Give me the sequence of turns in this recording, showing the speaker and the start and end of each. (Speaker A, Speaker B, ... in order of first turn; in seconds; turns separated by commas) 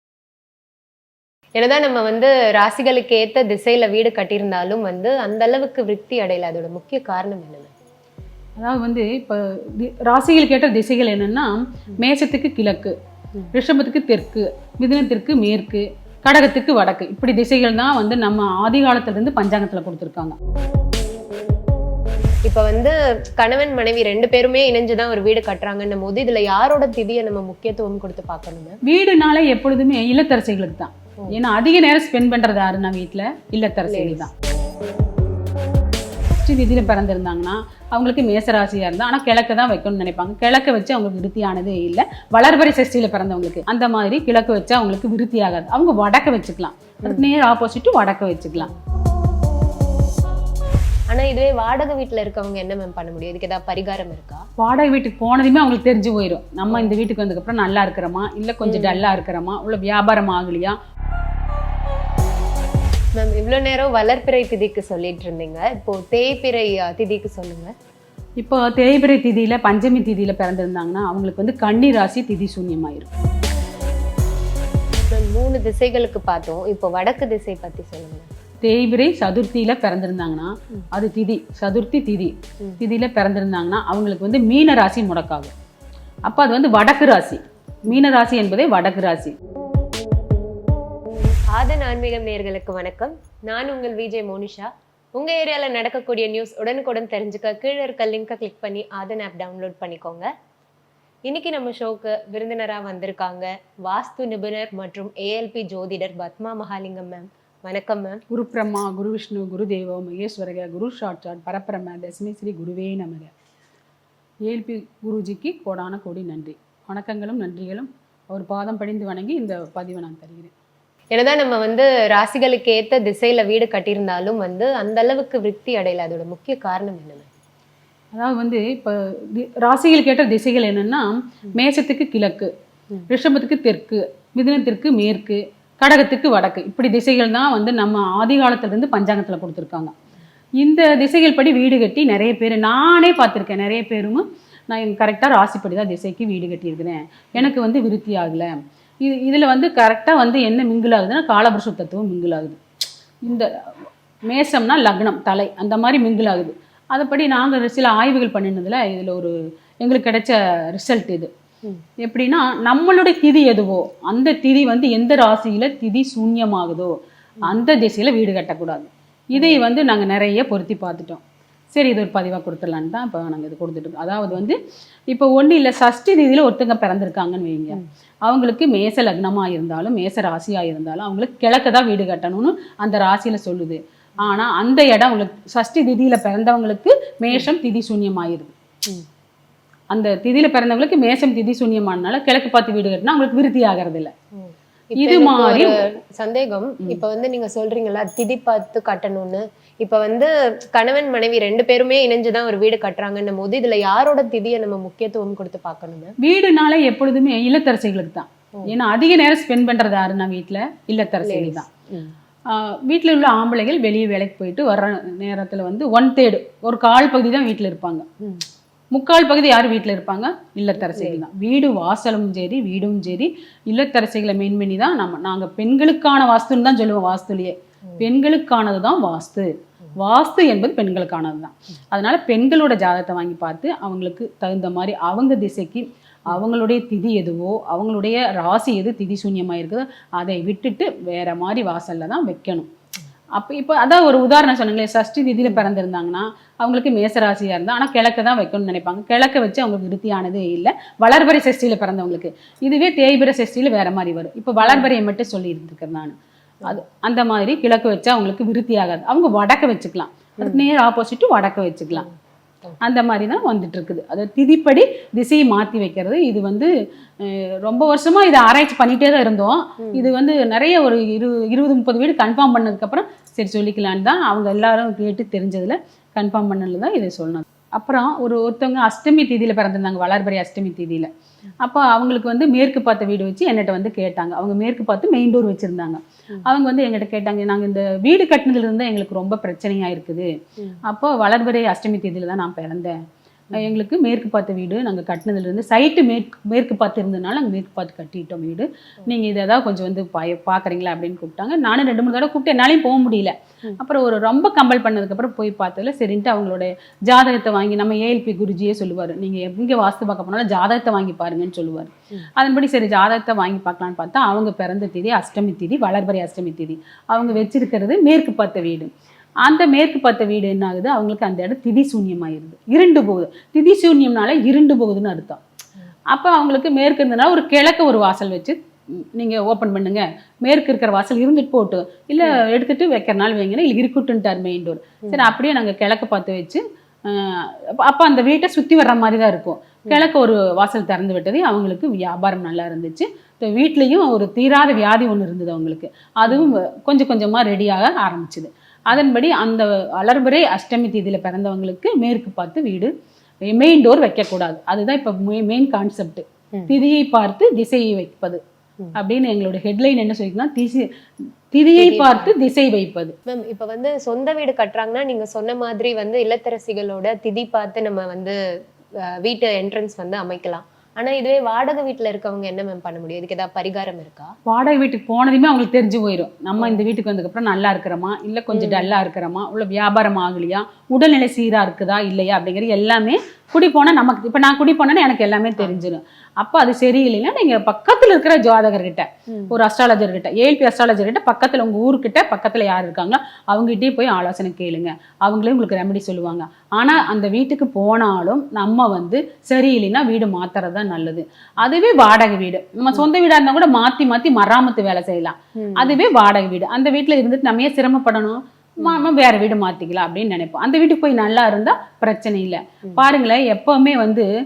Speaker A: 1.6-7.7, Speaker B: 8.6-13.0, Speaker B: 13.5-20.4, Speaker A: 22.4-28.8, Speaker B: 28.9-34.3, Speaker A: 33.9-34.2, Speaker B: 36.4-48.7, Speaker A: 47.0-47.3, Speaker A: 51.1-54.5, Speaker B: 54.6-60.8, Speaker A: 56.7-57.0, Speaker A: 58.6-59.0, Speaker A: 63.2-67.7, Speaker B: 68.4-73.1, Speaker A: 75.1-78.3, Speaker B: 78.6-85.5, Speaker B: 86.3-89.3, Speaker A: 91.5-100.3, Speaker A: 101.3-108.2, Speaker B: 108.3-113.3, Speaker B: 114.5-120.5, Speaker A: 121.1-127.3, Speaker B: 128.1-132.5, Speaker B: 133.1-139.9, Speaker B: 140.6-152.6, Speaker B: 154.3-161.3, Speaker B: 162.0-166.9, Speaker B: 167.4-171.2, Speaker A: 169.4-169.6, Speaker B: 171.7-174.6, Speaker B: 175.1-188.5, Speaker B: 189.9-194.1, Speaker A: 194.4-206.1, Speaker B: 195.0-195.8, Speaker B: 206.2-211.7, Speaker A: 211.2-212.1, Speaker B: 212.5-218.1, Speaker B: 218.9-242.7, Speaker A: 220.8-221.2, Speaker B: 243.3-262.1, Speaker A: 254.6-254.9, Speaker B: 262.8-281.1, Speaker A: 269.8-270.1, Speaker B: 281.6-290.3, Speaker B: 290.9-292.9, Speaker B: 293.5-318.9, Speaker B: 319.4-325.4, Speaker B: 326.1-328.6, Speaker B: 329.2-352.9, Speaker A: 335.1-335.3, Speaker A: 346.3-346.6, Speaker B: 353.5-358.4, Speaker B: 358.9-360.9, Speaker B: 361.5-363.2, Speaker A: 361.8-362.3, Speaker A: 363.3-368.4, Speaker A: 369.1-374.4, Speaker B: 374.5-414.3, Speaker A: 378.5-378.9, Speaker A: 385.6-385.9, Speaker A: 389.3-389.6, Speaker A: 405.6-406.0, Speaker A: 408.8-409.1